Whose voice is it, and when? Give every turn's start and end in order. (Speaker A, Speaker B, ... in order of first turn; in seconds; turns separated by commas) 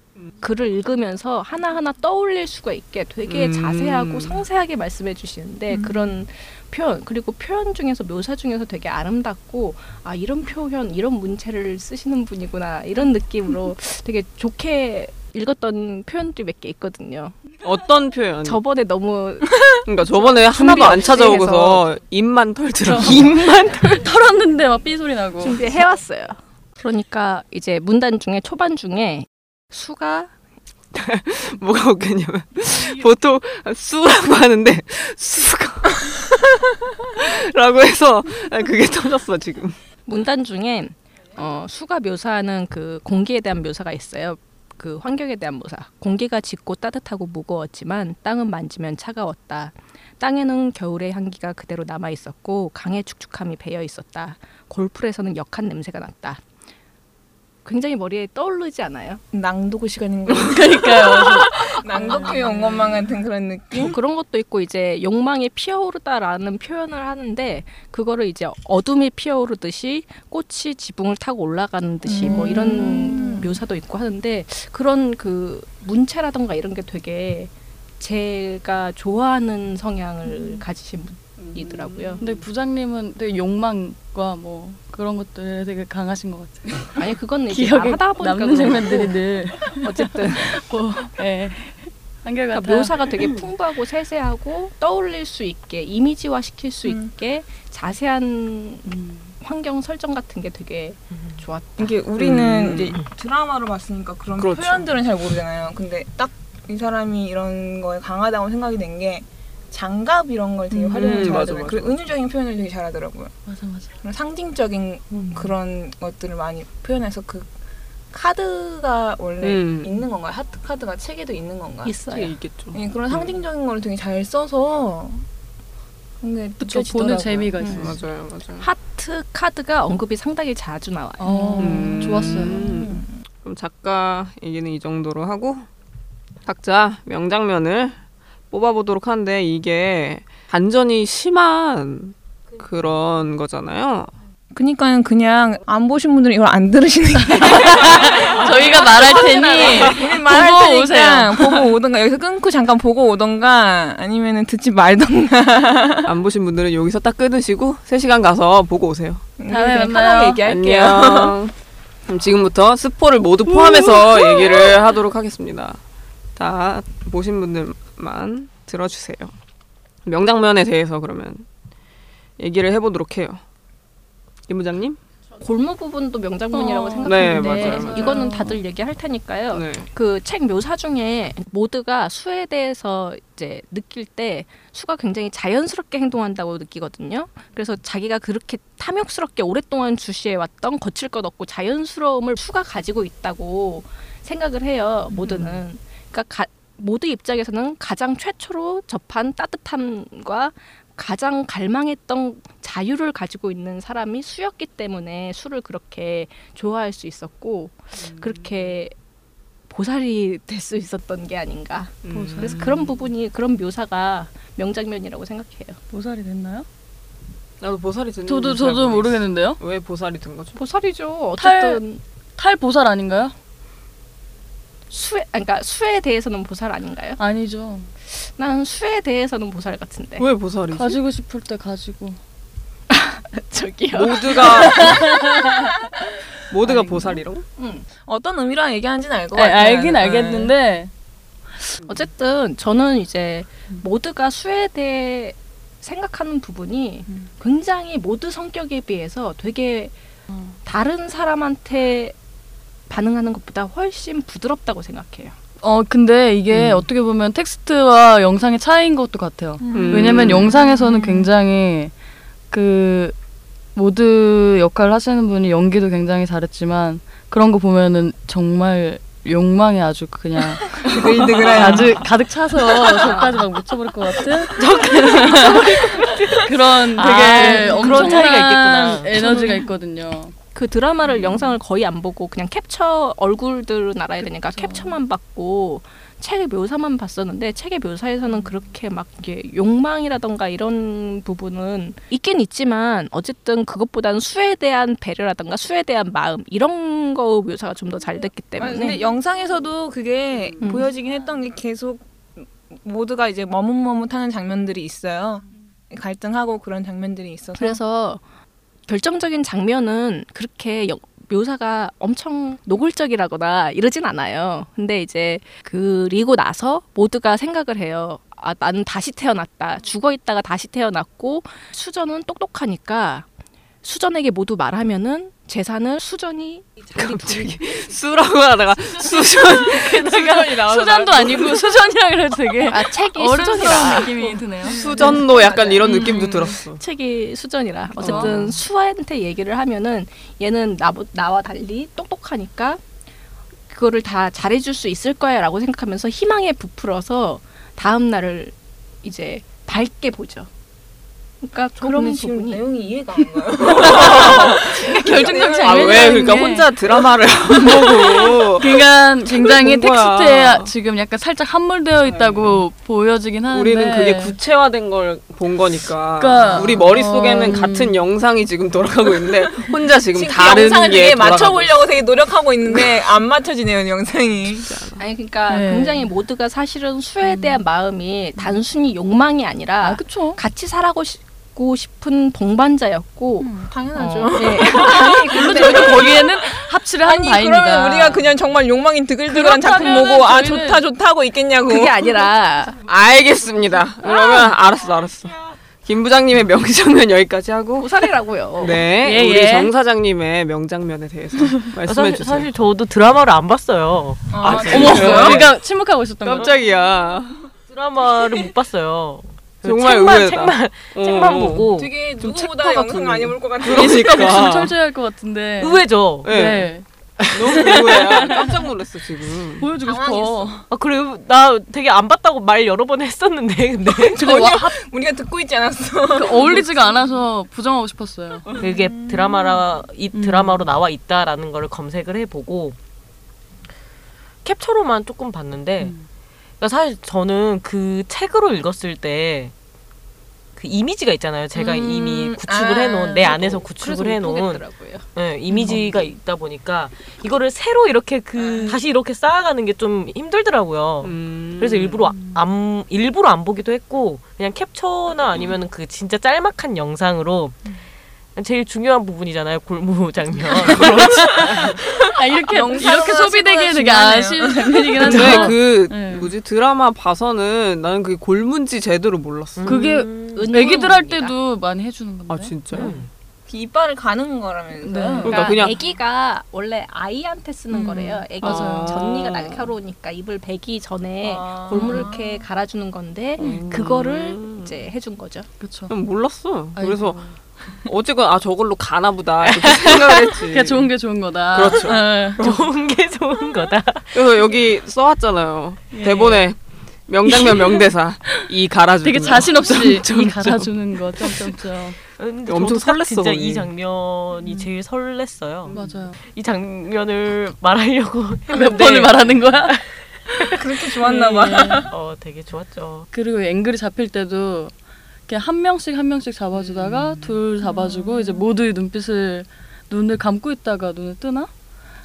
Speaker A: 0.4-17.4, Speaker B: 3.3-4.4, Speaker C: 5.7-6.1, Speaker B: 17.6-18.6, Speaker A: 18.4-21.9, Speaker B: 19.9-23.8, Speaker D: 20.6-21.5, Speaker D: 22.8-25.7, Speaker A: 25.4-30.3, Speaker B: 30.9-39.8, Speaker A: 40.1-56.4, Speaker A: 57.6-59.2, Speaker C: 59.3-64.0, Speaker D: 60.3-63.0, Speaker A: 62.1-62.4, Speaker A: 63.7-82.2, Speaker C: 72.0-73.5, Speaker B: 81.5-82.4, Speaker D: 82.2-86.9, Speaker A: 87.0-90.7, Speaker D: 87.5-93.3, Speaker A: 92.5-101.9, Speaker D: 98.9-99.3, Speaker C: 101.8-113.3, Speaker B: 102.2-103.0, Speaker B: 104.4-104.9, Speaker D: 110.7-111.3, Speaker B: 111.0-112.0, Speaker D: 113.5-113.9, Speaker C: 114.0-117.5, Speaker D: 115.1-115.5, Speaker C: 118.1-121.9, Speaker B: 119.4-120.0, Speaker A: 121.8-122.3, Speaker B: 122.1-123.4, Speaker C: 122.7-125.2, Speaker C: 126.2-127.9, Speaker D: 126.6-127.9, Speaker B: 127.7-128.7, Speaker A: 128.6-131.5, Speaker D: 131.2-132.8, Speaker C: 131.3-133.1, Speaker B: 131.6-135.7, Speaker B: 136.5-138.0, Speaker B: 138.5-144.1, Speaker C: 144.5-156.1, Speaker D: 147.4-151.7, Speaker B: 156.0-159.3, Speaker C: 159.4-161.4, Speaker D: 159.5-160.4, Speaker B: 160.4-161.5, Speaker B: 162.1-165.8, Speaker B: 166.4-169.3, Speaker B: 170.1-171.5, Speaker B: 172.4-173.4, Speaker B: 174.5-175.0, Speaker A: 175.4-208.9, Speaker D: 176.5-178.6, Speaker B: 177.0-178.3, Speaker B: 179.5-179.9, Speaker B: 208.0-208.8, Speaker A: 209.7-215.8, Speaker B: 212.0-212.9, Speaker D: 212.1-212.9, Speaker D: 215.9-216.7, Speaker B: 217.6-220.6, Speaker D: 218.3-219.6, Speaker A: 220.6-222.0, Speaker D: 221.4-221.8, Speaker D: 222.4-223.3, Speaker A: 224.9-227.2, Speaker D: 227.2-227.9, Speaker A: 228.1-230.3, Speaker B: 230.2-231.0, Speaker D: 230.7-232.2, Speaker A: 232.9-235.5, Speaker B: 233.9-235.2, Speaker D: 234.8-235.2, Speaker B: 236.5-237.4, Speaker A: 237.6-237.9, Speaker C: 238.0-240.5, Speaker D: 239.3-240.9, Speaker A: 241.9-249.9, Speaker A: 250.7-252.2, Speaker A: 252.9-255.4, Speaker D: 255.6-261.9, Speaker B: 256.5-256.9, Speaker C: 259.6-261.2, Speaker B: 259.7-260.6, Speaker D: 262.5-263.1, Speaker D: 263.8-280.3, Speaker C: 270.8-272.1, Speaker B: 271.0-271.8, Speaker E: 271.6-271.8, Speaker E: 274.5-279.4, Speaker C: 275.0-275.3, Speaker A: 279.2-279.5, Speaker A: 280.6-299.0, Speaker D: 284.4-285.0, Speaker C: 298.6-307.8, Speaker A: 300.6-300.9, Speaker A: 307.6-308.2, Speaker A: 308.9-323.3, Speaker A: 323.8-327.6, Speaker B: 326.9-331.8, Speaker D: 329.0-335.1, Speaker A: 332.7-334.4, Speaker B: 334.6-336.8, Speaker C: 334.6-336.5, Speaker A: 335.9-342.8, Speaker D: 338.0-338.3, Speaker B: 338.0-338.5, Speaker A: 343.7-350.5, Speaker A: 351.4-352.6, Speaker C: 351.8-356.4, Speaker B: 353.6-360.7, Speaker D: 353.9-356.8, Speaker D: 357.6-364.4, Speaker B: 362.1-362.6, Speaker B: 363.5-371.9, Speaker D: 366.2-368.0, Speaker C: 370.1-374.7, Speaker B: 372.7-373.0, Speaker B: 374.5-375.0, Speaker A: 375.0-386.1, Speaker D: 375.5-376.1, Speaker D: 377.2-377.6, Speaker D: 379.8-380.4, Speaker D: 383.4-383.7, Speaker C: 383.7-392.3, Speaker D: 384.6-388.3, Speaker D: 389.3-390.8, Speaker A: 391.7-392.8, Speaker B: 392.8-402.5, Speaker A: 397.8-398.8, Speaker D: 399.0-399.7, Speaker E: 401.8-405.4, Speaker C: 404.3-405.4, Speaker B: 404.4-405.6, Speaker D: 404.5-406.5, Speaker B: 406.2-407.5, Speaker E: 407.7-411.9, Speaker B: 409.6-414.8, Speaker C: 411.7-414.4, Speaker D: 413.6-416.9, Speaker E: 415.6-416.4, Speaker B: 416.2-416.7, Speaker E: 417.2-418.4, Speaker B: 417.3-419.7, Speaker D: 417.4-418.6, Speaker D: 419.6-420.6, Speaker C: 419.8-420.6, Speaker E: 420.7-424.3, Speaker C: 423.9-427.0, Speaker D: 424.2-424.8, Speaker D: 426.1-428.6, Speaker C: 428.5-429.6, Speaker E: 428.6-432.8, Speaker D: 430.1-430.7, Speaker E: 434.4-435.9, Speaker E: 436.6-439.5, Speaker E: 440.6-457.6, Speaker C: 441.6-443.5, Speaker A: 443.6-445.1, Speaker C: 448.4-448.8, Speaker B: 451.0-452.1, Speaker E: 458.4-461.8, Speaker D: 462.1-466.3, Speaker C: 462.5-465.5, Speaker B: 465.0-469.8, Speaker E: 469.6-470.8, Speaker D: 469.6-472.9, Speaker A: 470.3-471.3, Speaker B: 472.3-473.0, Speaker E: 472.7-473.1, Speaker C: 473.5-475.5, Speaker D: 474.8-475.7, Speaker B: 475.2-475.8, Speaker A: 475.3-485.5, Speaker D: 477.7-479.0, Speaker B: 478.4-479.7, Speaker C: 481.2-482.4, Speaker B: 481.7-482.0, Speaker D: 481.7-482.0, Speaker B: 483.4-484.8, Speaker D: 483.4-483.8, Speaker D: 485.6-485.9, Speaker B: 485.9-487.3, Speaker D: 486.8-487.3, Speaker B: 487.9-490.9, Speaker E: 489.5-490.2, Speaker D: 490.4-492.5, Speaker B: 491.5-492.7, Speaker C: 491.9-492.3, Speaker E: 492.4-494.2, Speaker B: 494.1-501.6, Speaker D: 495.9-496.5, Speaker D: 497.4-498.5, Speaker D: 499.0-502.0, Speaker E: 502.2-510.6, Speaker B: 502.5-503.7, Speaker B: 505.7-506.0, Speaker D: 505.7-506.2, Speaker D: 508.5-509.8, Speaker C: 510.5-511.9, Speaker D: 511.0-511.9, Speaker E: 511.9-513.1, Speaker D: 513.1-514.7, Speaker D: 515.3-521.5, Speaker E: 516.6-517.4